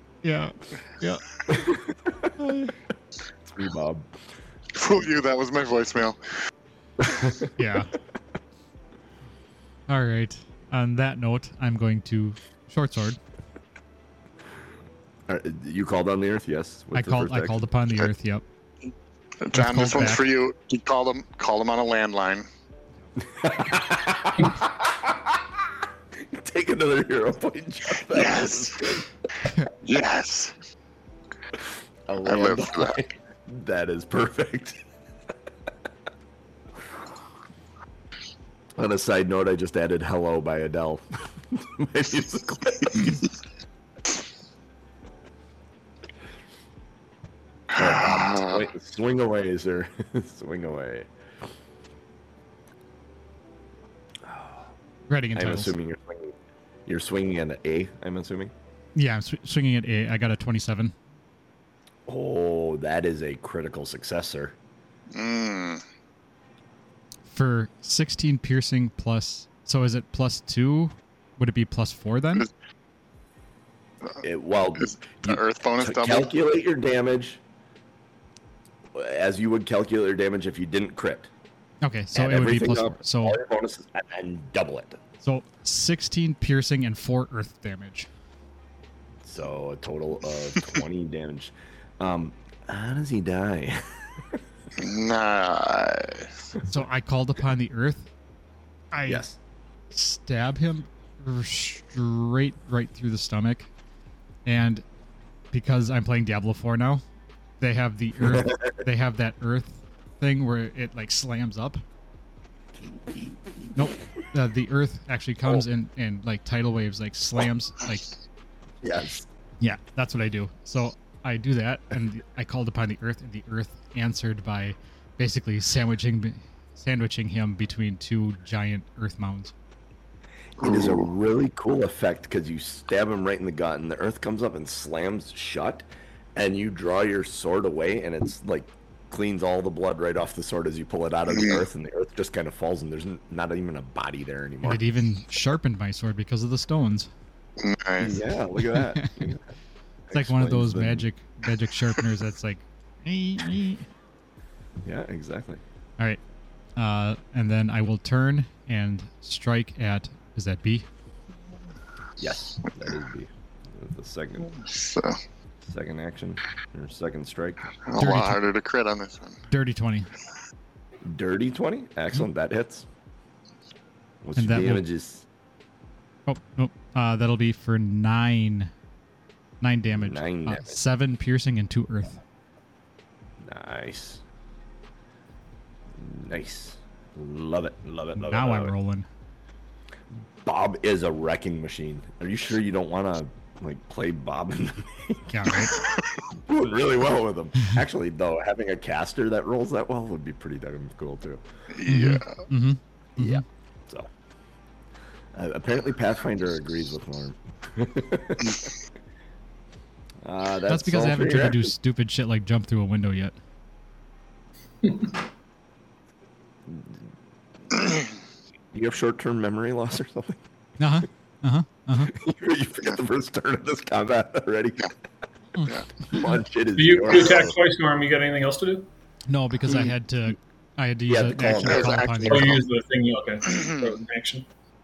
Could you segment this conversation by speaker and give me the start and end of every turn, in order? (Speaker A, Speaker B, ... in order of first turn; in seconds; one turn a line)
Speaker A: 0.2-1.2
Speaker B: 1.5-2.6
Speaker A: 2.4-2.7
Speaker B: 3.4-4.2
Speaker C: 4.7-6.2
Speaker B: 7.0-7.5
Speaker A: 7.6-7.9
Speaker A: 9.9-13.2
Speaker B: 15.3-17.6
Speaker A: 16.9-18.4
Speaker C: 19.4-22.5
Speaker A: 19.5-20.2
Speaker B: 23.2-29.1
Speaker C: 28.1-29.0
Speaker C: 29.8-30.5
Speaker B: 32.1-34.8
Speaker C: 32.2-33.0
Speaker B: 38.8-43.3
Speaker C: 47.7-48.6
Speaker B: 47.8-51.1
Speaker B: 54.2-54.7
Speaker A: 55.1-55.7
Speaker B: 55.3-56.3
Speaker B: 56.9-58.5
Speaker A: 58.9-60.9
Speaker B: 62.1-64.5
Speaker C: 65.1-65.8
Speaker A: 67.3-72.5
Speaker B: 74.2-77.4
Speaker C: 74.8-76.3
Speaker B: 78.9-81.3
Speaker A: 81.8-83.4
Speaker B: 82.1-85.0
Speaker A: 85.2-88.1
Speaker B: 89.2-94.4
Speaker C: 94.8-96.5
Speaker A: 96.7-98.1
Speaker A: 98.9-99.2
Speaker B: 99.1-99.4
Speaker A: 99.9-103.7
Speaker A: 104.4-104.8
Speaker A: 105.5-107.0
Speaker A: 107.6-111.8
Speaker B: 108.2-108.7
Speaker A: 113.7-118.0
Speaker B: 118.8-119.3
Speaker A: 119.6-129.5
Speaker B: 130.6-144.8
Speaker C: 130.6-131.1
Speaker C: 141.3-141.6
Speaker A: 144.6-147.1
Speaker C: 147.6-148.2
Speaker B: 148.0-149.5
Speaker A: 148.7-149.3
Speaker B: 150.1-151.1
Speaker A: 150.1-153.8
Speaker B: 154.8-155.6
Speaker A: 156.8-160.9
Speaker B: 162.2-164.6
Speaker C: 164.6-165.2
Speaker B: 165.6-167.7
Speaker C: 167.8-169.4
Speaker A: 168.0-168.4
Speaker A: 169.5-170.1
Speaker B: 171.0-172.9
Speaker B: 174.2-175.2
Speaker A: 174.4-174.8
Speaker A: 176.3-178.7
Speaker A: 179.6-182.2
Speaker B: 179.9-180.8
Speaker B: 183.4-184.2
Speaker B: 185.9-188.7
Speaker A: 188.2-189.1
Speaker B: 190.4-201.4
Speaker A: 195.3-195.8
Speaker C: 201.7-202.4
Speaker A: 201.9-203.4
Speaker B: 203.2-204.1
Speaker B: 205.3-208.7
Speaker B: 210.2-211.7
Speaker A: 210.7-213.3
Speaker D: 214.8-215.1
Speaker B: 216.7-217.0
Speaker C: 217.8-218.1
Speaker B: 218.7-220.4
Speaker A: 220.8-222.1
Speaker B: 222.1-224.9
Speaker A: 225.6-226.4
Speaker B: 226.1-227.6
Speaker D: 226.8-228.9
Speaker A: 229.3-232.6
Speaker B: 229.6-229.9
Speaker B: 231.1-232.1
Speaker C: 231.6-232.6
Speaker D: 232.2-234.5
Speaker C: 233.5-233.9